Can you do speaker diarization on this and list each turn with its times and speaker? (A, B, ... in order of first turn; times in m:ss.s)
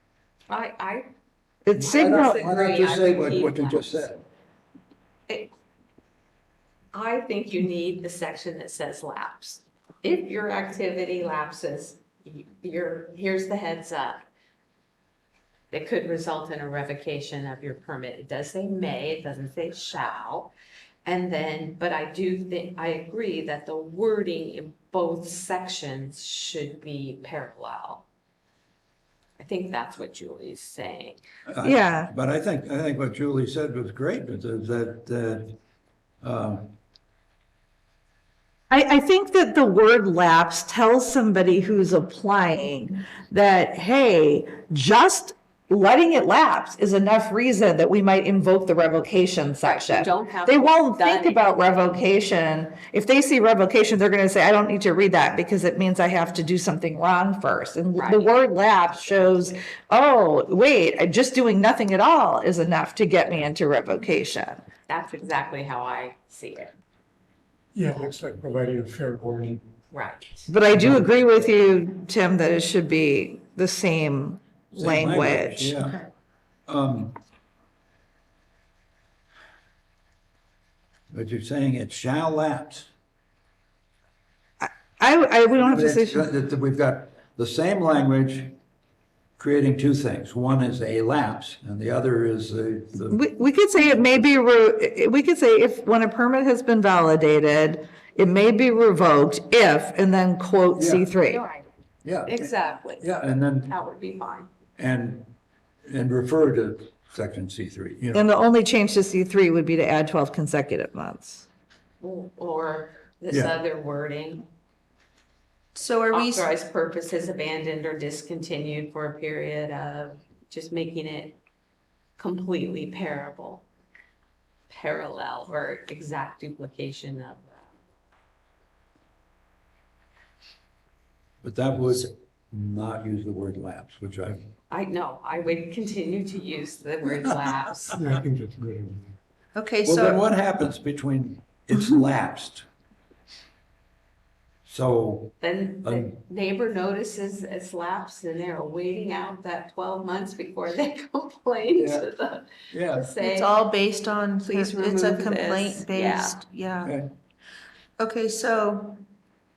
0:00.5-0:01.1 A
0:01.7-0:02.4 B
0:01.7-0:04.1 A
0:01.8-0:04.2 C
0:05.3-0:05.5 A
0:06.9-0:14.2 A
0:15.7-0:20.5 A
0:21.0-0:28.1 A
0:29.4-0:31.2 A
0:31.5-0:35.6 C
0:31.6-0:32.1 B
0:36.2-0:36.7 C
0:38.7-1:04.6 B
0:49.6-0:51.6 A
0:58.0-0:59.7 A
1:04.9-1:06.8 A
1:07.8-1:09.6 D
1:09.9-1:10.5 A
1:10.5-1:15.8 B
1:10.8-1:11.0 C
1:14.7-1:16.0 C
1:16.7-1:17.2 C
1:21.1-1:22.9 C
1:24.6-1:26.2 B
1:25.6-1:28.6 C
1:29.4-1:33.3 C
1:33.1-1:41.4 B
1:40.8-1:41.1 C
1:41.2-1:41.7 A
1:42.0-1:43.7 C
1:42.3-1:43.1 A
1:43.6-1:44.5 A
1:44.8-1:45.3 C
1:45.9-1:48.3 C
1:48.1-1:51.5 B
1:52.0-1:54.5 A
1:55.8-1:56.5 E
1:56.1-2:01.4 A
2:02.2-2:03.6 A
2:04.7-2:07.7 A
2:11.4-2:14.5 C
2:14.7-2:18.0 A
2:18.0-2:19.0 D
2:19.6-2:20.2 E
2:19.8-2:22.7 C
2:24.6-2:26.2 C
2:25.4-2:33.6 A
2:31.8-2:32.1 C
2:32.7-2:33.1 C
2:33.2-2:36.9 E
2:34.4-2:36.4 A
2:36.8-2:37.1 C
2:38.0-2:39.0 E